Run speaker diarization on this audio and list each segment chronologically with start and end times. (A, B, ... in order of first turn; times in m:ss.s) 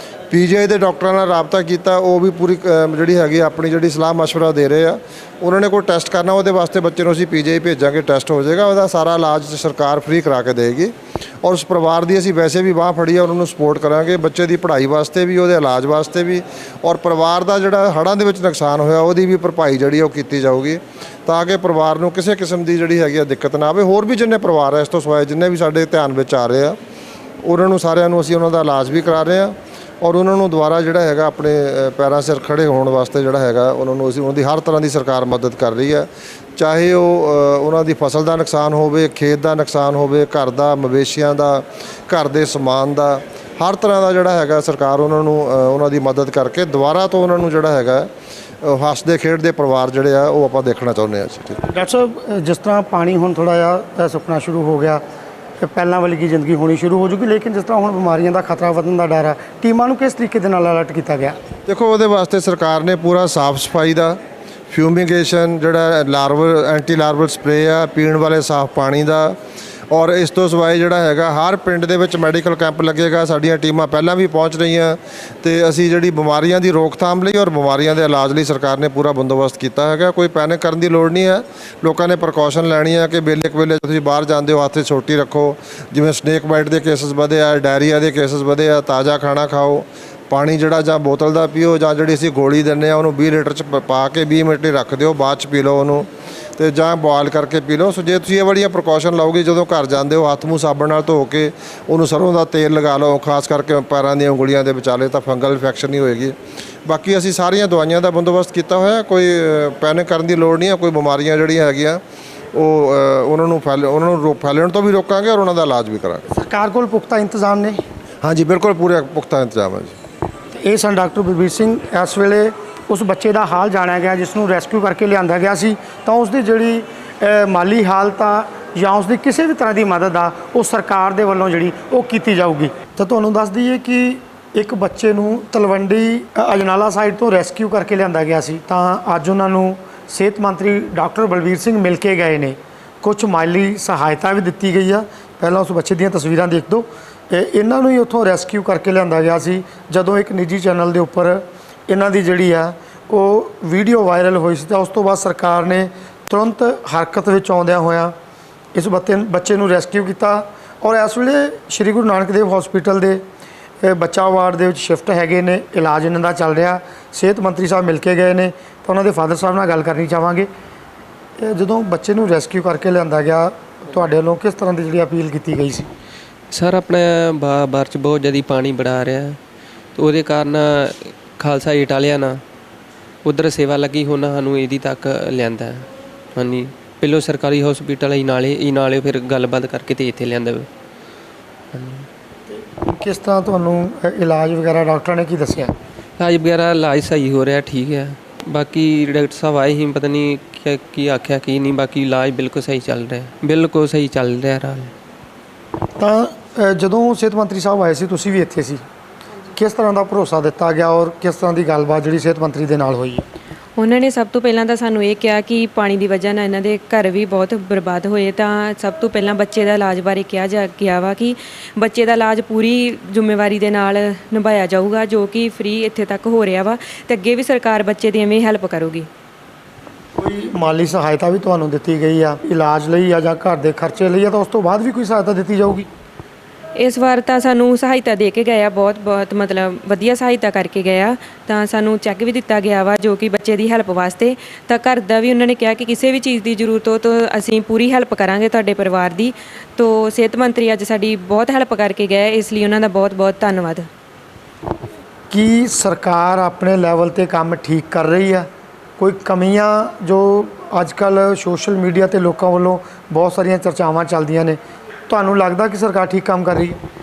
0:00.3-0:26.8 A
0:27.4-0:48.1 A
0:48.6-0:51.6 A
0:51.7-0:55.0 B
0:55.6-1:01.4 B
1:01.7-1:04.2 A
1:04.7-1:09.4 A
1:09.9-1:36.0 A
1:36.6-1:46.3 A
1:46.8-1:52.0 A
1:52.5-1:56.2 A
1:56.3-1:57.8 B
1:58.2-1:59.9 A
2:00.5-2:38.1 B
2:38.7-2:43.2 B
2:43.8-2:50.5 B
2:51.4-2:55.9 B
2:56.5-2:59.4 C
3:00.0-3:02.4 C
3:03.2-3:10.7 C
3:11.7-3:12.1 C
3:12.5-3:15.7 B
3:16.2-3:24.9 C
3:26.0-3:28.8 B
3:29.6-3:33.2 B
3:33.8-3:49.1 D
3:50.2-3:55.9 B
3:56.8-4:13.9 D
4:15.3-4:18.5 B
4:19.0-4:24.6 B
4:25.1-4:26.8 B